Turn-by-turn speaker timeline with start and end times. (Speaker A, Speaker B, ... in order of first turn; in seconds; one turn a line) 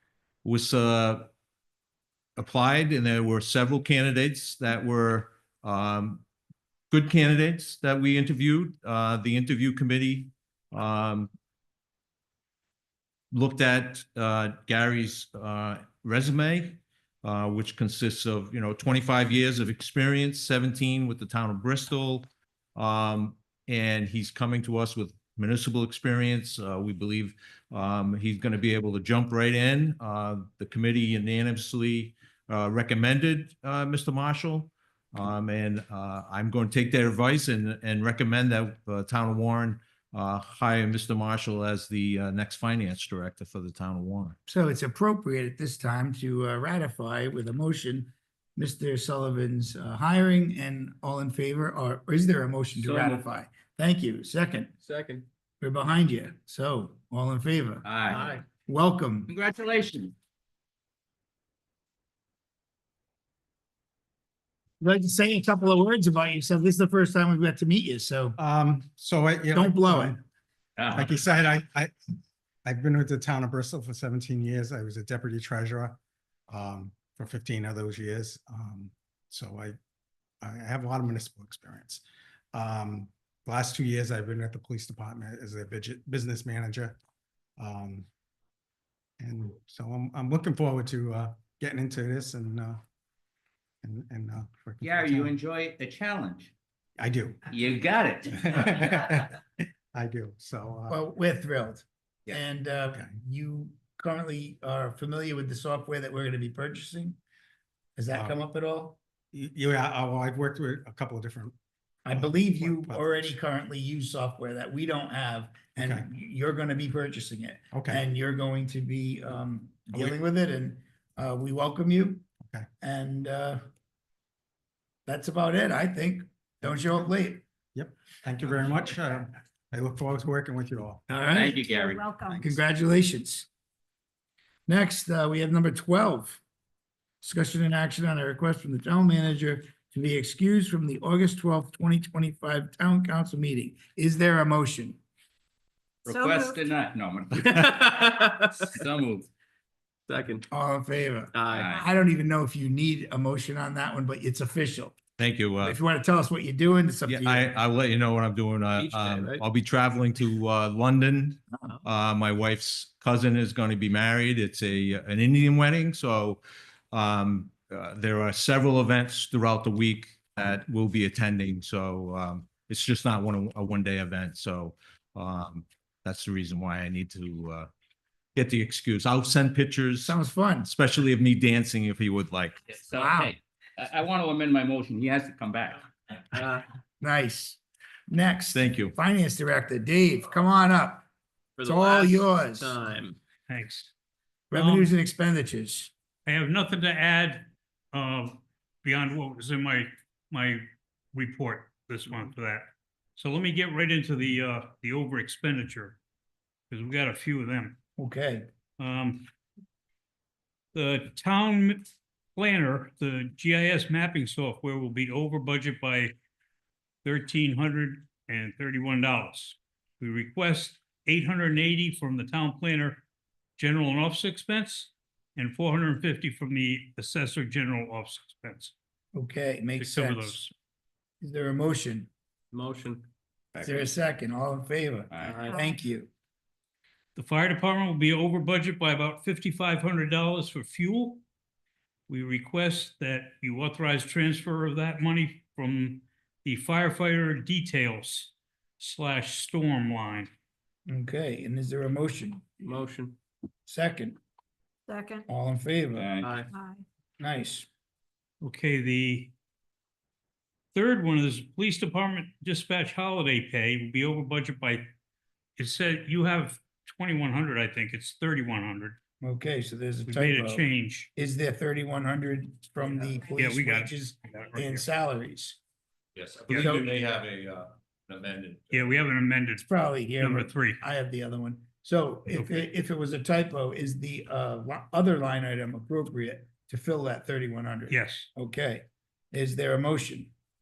Speaker A: 0.4-1.3
Speaker A: 2.4-6.2
Speaker A: 6.9-11.3
Speaker A: 13.3-44.4
Speaker B: 44.5-54.7
Speaker C: 52.8-53.2
Speaker D: 54.8-55.3
Speaker B: 55.6-57.9
Speaker C: 57.9-58.2
Speaker D: 58.1-58.4
Speaker B: 58.5-59.3
Speaker C: 59.3-60.1
Speaker B: 64.8-68.4
Speaker E: 68.4-70.2
Speaker B: 69.5-70.2
Speaker C: 70.8-71.2
Speaker E: 70.9-71.9
Speaker E: 72.7-76.0
Speaker E: 76.5-79.8
Speaker E: 80.4-82.0
Speaker E: 82.5-87.0
Speaker E: 87.6-88.1
Speaker E: 89.2-92.8
Speaker E: 93.8-95.4
Speaker C: 94.8-96.5
Speaker E: 97.0-97.4
Speaker C: 97.5-99.0
Speaker E: 98.3-99.3
Speaker E: 99.9-101.0
Speaker B: 100.9-107.2
Speaker B: 108.0-109.0
Speaker E: 109.3-111.5
Speaker B: 112.0-122.2
Speaker E: 112.1-113.3
Speaker E: 115.8-116.1
Speaker E: 117.7-118.0
Speaker E: 119.9-120.2
Speaker B: 122.8-123.6
Speaker B: 125.1-127.4
Speaker E: 127.8-131.1
Speaker B: 131.1-131.6
Speaker C: 131.3-132.1
Speaker F: 131.4-132.6
Speaker E: 132.3-132.6
Speaker B: 132.3-133.5
Speaker B: 134.7-136.4
Speaker B: 137.2-145.0
Speaker C: 146.1-147.9
Speaker F: 146.1-146.7
Speaker D: 147.3-148.6
Speaker C: 148.6-149.3
Speaker D: 150.1-150.5
Speaker B: 150.5-155.0
Speaker D: 151.3-151.7
Speaker C: 151.5-151.8
Speaker A: 155.2-155.8
Speaker B: 155.6-157.6
Speaker A: 157.1-166.4
Speaker D: 158.8-159.4
Speaker A: 166.9-177.7
Speaker A: 178.3-182.6
Speaker B: 180.0-180.7
Speaker C: 182.7-185.9
Speaker B: 182.9-183.3
Speaker D: 186.3-186.6
Speaker B: 187.0-191.1
Speaker A: 188.5-188.9
Speaker D: 191.6-193.2
Speaker B: 191.6-192.8
Speaker G: 193.5-193.9
Speaker B: 194.5-195.9
Speaker G: 194.5-195.0
Speaker G: 196.3-206.0
Speaker G: 206.7-207.8
Speaker B: 208.0-208.5
Speaker G: 208.8-209.3
Speaker G: 210.7-216.1
Speaker G: 217.0-223.0
Speaker G: 223.6-228.7
Speaker B: 229.1-230.4
Speaker G: 229.8-230.5
Speaker B: 231.2-232.1
Speaker D: 232.5-233.1
Speaker C: 233.6-233.8
Speaker B: 233.6-236.1
Speaker C: 235.1-235.4
Speaker F: 235.2-235.8
Speaker D: 235.2-235.5
Speaker G: 237.2-241.2
Speaker G: 242.1-250.3
Speaker B: 250.9-252.5
Speaker D: 252.6-253.2
Speaker B: 253.7-254.2
Speaker F: 254.9-255.3
Speaker B: 255.3-256.1
Speaker C: 256.0-256.4
Speaker D: 256.2-256.5
Speaker F: 256.5-256.8
Speaker B: 257.2-257.7
Speaker G: 258.4-259.3
Speaker G: 260.7-264.9
Speaker G: 265.6-269.0
Speaker B: 269.2-275.6
Speaker G: 270.1-271.1
Speaker G: 273.4-274.9
Speaker A: 276.2-278.9
Speaker B: 276.5-276.9
Speaker G: 278.7-279.7
Speaker B: 279.6-290.3
Speaker G: 280.2-280.8
Speaker G: 282.3-282.6
Speaker G: 287.9-288.3